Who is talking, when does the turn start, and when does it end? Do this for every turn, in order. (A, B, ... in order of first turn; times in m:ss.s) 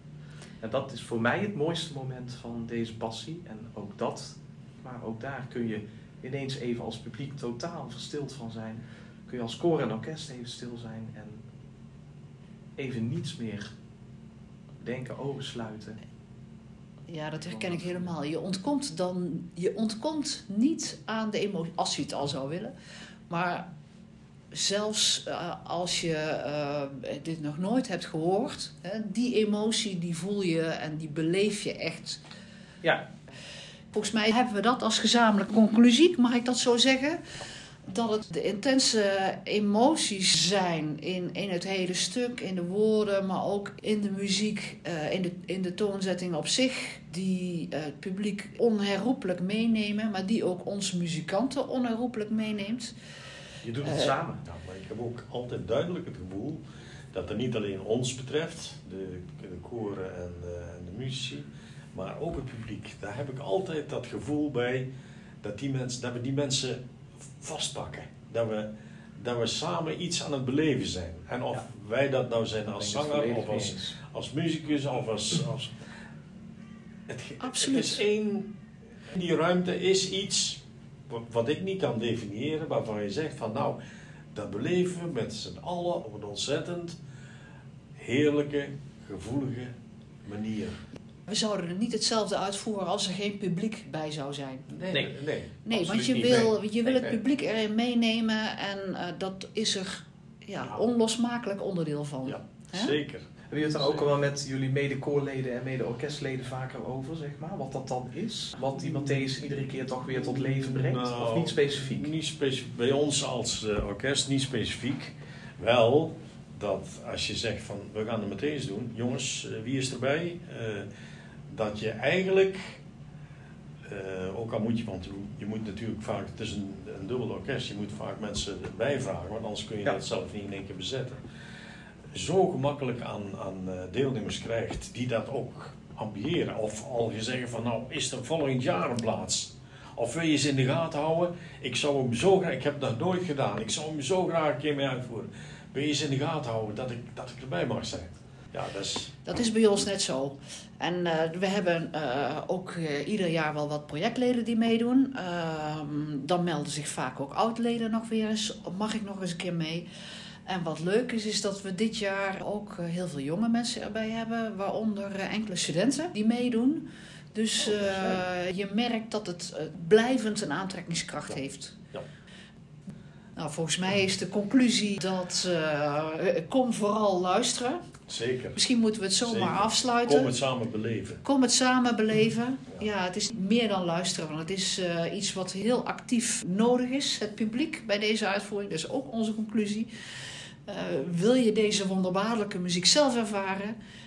0:00.6-0:11.4 A
0:12.8-0:13.7 A
0:14.8-0:16.0 A
0:17.1-0:22.7 B
0:17.4-0:18.1 A
0:23.3-0:23.7 B
0:24.5-0:32.2 B
0:33.9-0:37.2 B
0:37.9-0:52.9 B
0:53.6-0:54.4 A
0:53.8-0:54.1 B
0:54.4-0:56.6 C
0:57.1-1:04.9 C
1:05.4-1:15.8 C
1:12.7-1:14.0 A
1:17.1-1:18.6 C
1:17.4-1:18.0 B
1:19.1-1:23.8 C
1:24.3-1:27.0 C
1:28.0-1:30.8 C
1:31.3-1:34.7 B
1:34.7-1:36.3 C
1:35.6-1:42.9 B
1:35.7-1:36.5 A
1:36.9-1:37.2 C
1:42.2-1:44.0 C
1:43.5-1:52.1 A
1:50.5-2:00.9 C
2:01.5-2:02.8 C
2:03.8-2:11.2 C
2:12.1-2:29.1 C
2:29.2-2:39.9 B
2:40.4-2:51.8 B
2:47.6-2:48.2 C
2:53.4-2:57.8 B
2:58.1-2:58.6 C
2:58.6-3:00.3 B
2:59.2-3:01.2 C
3:01.2-3:09.9 B
3:10.6-3:13.8 B